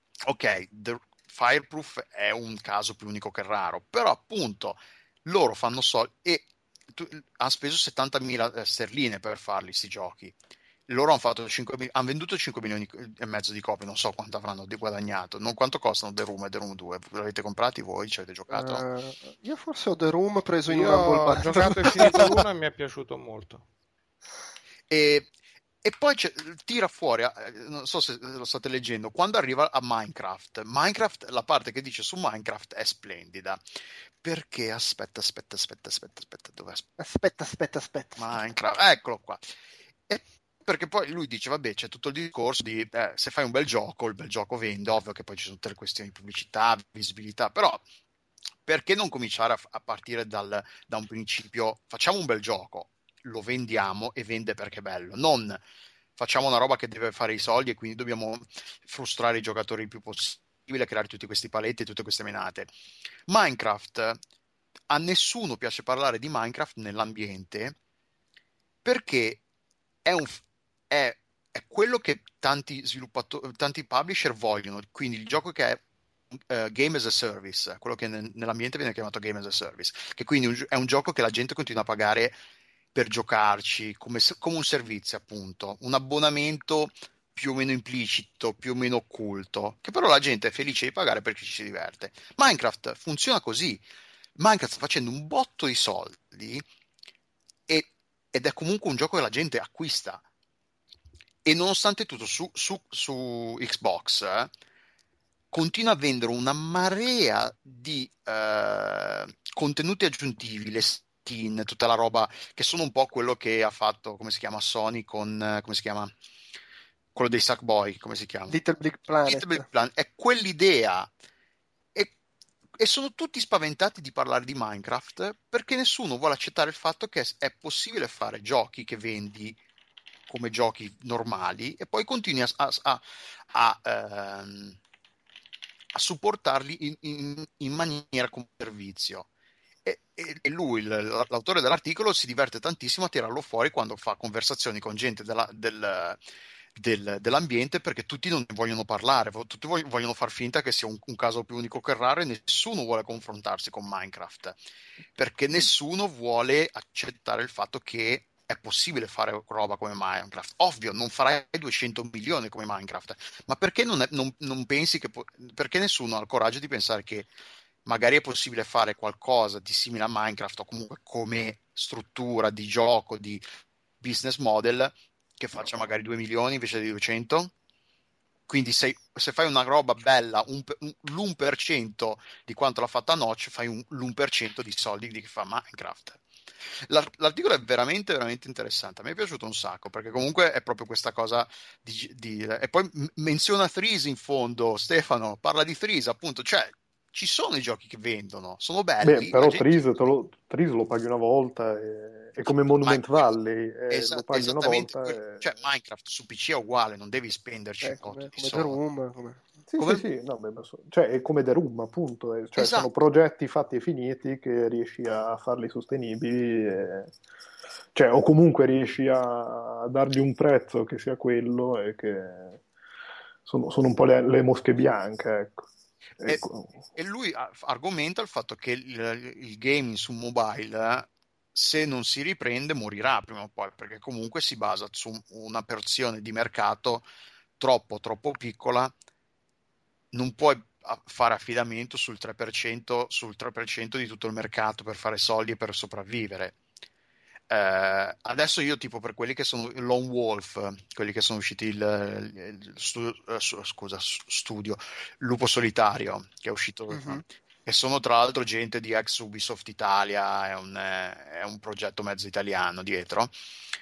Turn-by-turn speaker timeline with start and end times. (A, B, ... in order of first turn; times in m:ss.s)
0:00.2-0:10.4 A
0:10.9-0:18.8 A
0:18.5-0:22.4 B
0:20.6-0:23.6 C
0:24.9-0:25.3 A
0:25.8-0:33.6 A
0:34.2-0:36.9 A
0:37.0-0:38.2 B
0:38.2-0:39.4 A
0:40.1-0:47.8 A
0:48.6-0:55.6 A
0:56.2-1:02.7 A
1:03.3-1:04.2 A
1:04.9-1:07.8 A
1:08.8-1:09.4 A
1:10.0-1:15.8 A
1:16.4-1:22.4 A
1:22.9-1:33.8 A
1:34.4-1:36.6 A
1:37.7-1:40.2 A
1:41.4-1:44.5 A
1:45.5-1:56.1 A
1:57.1-1:58.6 A
1:58.5-1:59.6 B
1:59.2-2:01.1 A
2:02.8-2:09.6 A
2:10.3-2:14.8 A
2:15.9-2:19.3 A
2:19.8-2:26.2 A
2:26.7-2:34.6 A
2:35.2-2:47.3 A
2:47.8-2:53.4 A
2:54.0-2:57.5 A
2:58.5-3:06.2 A
3:06.9-3:19.8 A
3:19.0-3:25.5 D
3:22.4-3:23.3 A
3:23.9-3:28.8 A
3:27.8-3:29.5 B
3:29.7-3:37.1 D
3:32.6-3:32.9 A
3:37.9-3:42.6 D
3:43.4-3:45.7 D
3:46.2-3:46.8 D
3:47.0-3:57.0 A
3:57.6-3:58.9 A
4:00.1-4:06.6 A
4:07.5-4:23.3 A
4:16.9-4:17.2 B